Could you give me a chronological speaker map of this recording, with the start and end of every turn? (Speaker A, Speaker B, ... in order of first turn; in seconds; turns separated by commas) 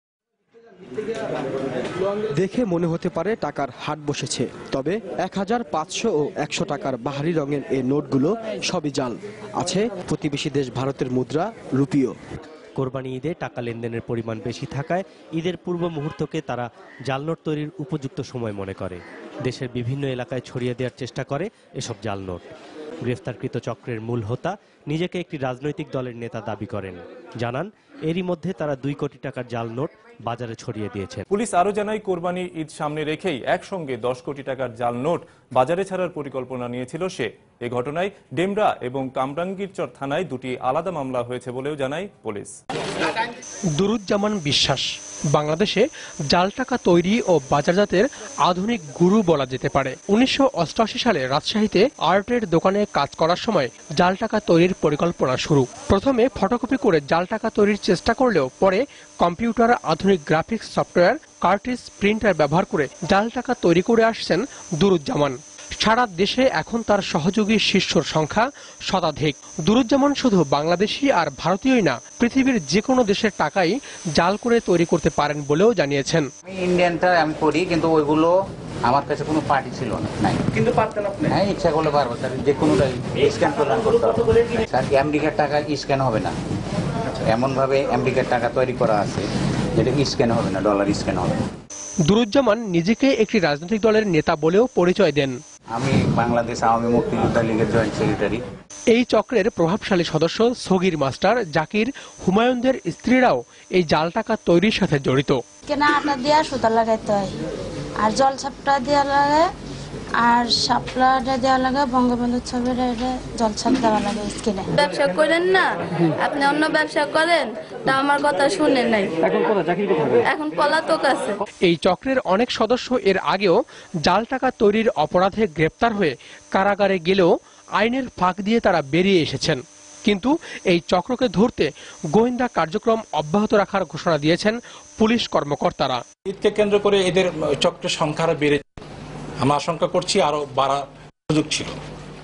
Speaker A: 2.4-12.1, Speaker B: 12.8-22.5, Speaker B: 23.0-31.2, Speaker C: 31.3-42.5, Speaker D: 43.8-76.3, Speaker E: 76.5-78.3, Speaker E: 78.8-80.4, Speaker E: 81.3-86.3, Speaker E: 87.3-91.4, Speaker D: 92.0-95.4, Speaker E: 95.7-98.4, Speaker D: 98.9-105.4, Speaker F: 105.7-107.3, Speaker F: 108.0-109.5, Speaker F: 110.2-114.7, Speaker G: 114.8-115.6, Speaker G: 116.2-119.0, Speaker G: 120.3-121.3, Speaker D: 121.7-136.0, Speaker H: 136.2-138.6, Speaker H: 139.4-141.7